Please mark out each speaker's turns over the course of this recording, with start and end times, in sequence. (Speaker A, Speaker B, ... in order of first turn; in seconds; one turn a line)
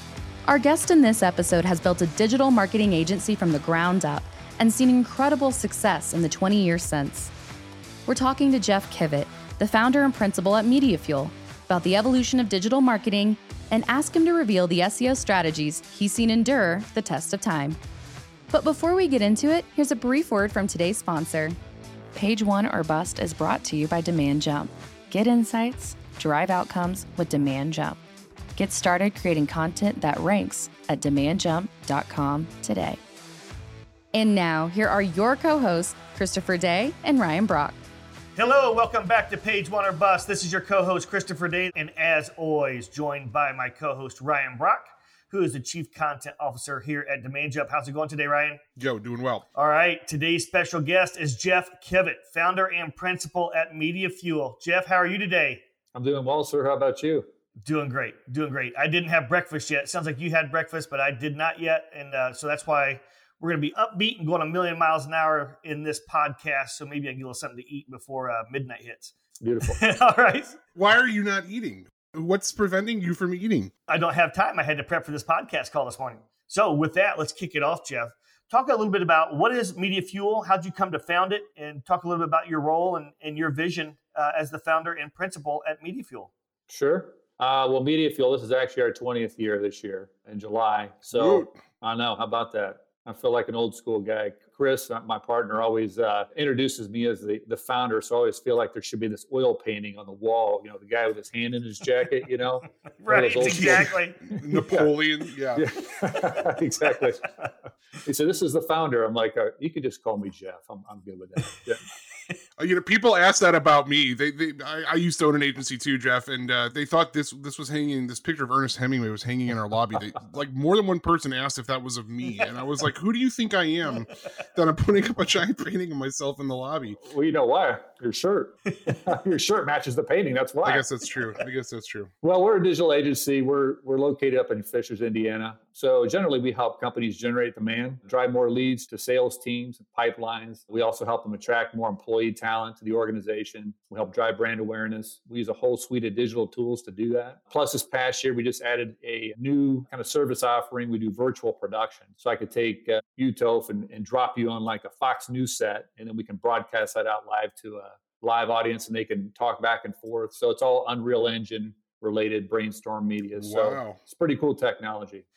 Speaker A: 0.5-7.3
Speaker A: 8.1-17.8
Speaker A: 18.5-21.6
Speaker A: 22.1-28.0
Speaker A: 28.6-33.0
Speaker A: 34.1-37.8
Speaker B: 38.4-48.6
Speaker C: 48.8-49.4
Speaker B: 49.5-55.6
Speaker D: 55.9-57.3
Speaker B: 57.6-70.6
Speaker D: 69.4-69.8
Speaker C: 70.7-73.7
Speaker B: 73.9-86.3
Speaker D: 86.7-104.9
Speaker C: 91.1-91.5
Speaker B: 103.0-104.3
Speaker C: 103.5-105.7
Speaker D: 105.5-107.3
Speaker D: 108.0-111.8
Speaker C: 112.6-127.0
Speaker D: 127.0-130.8
Speaker C: 130.6-132.1
Speaker D: 132.2-165.2
Speaker C: 163.3-164.0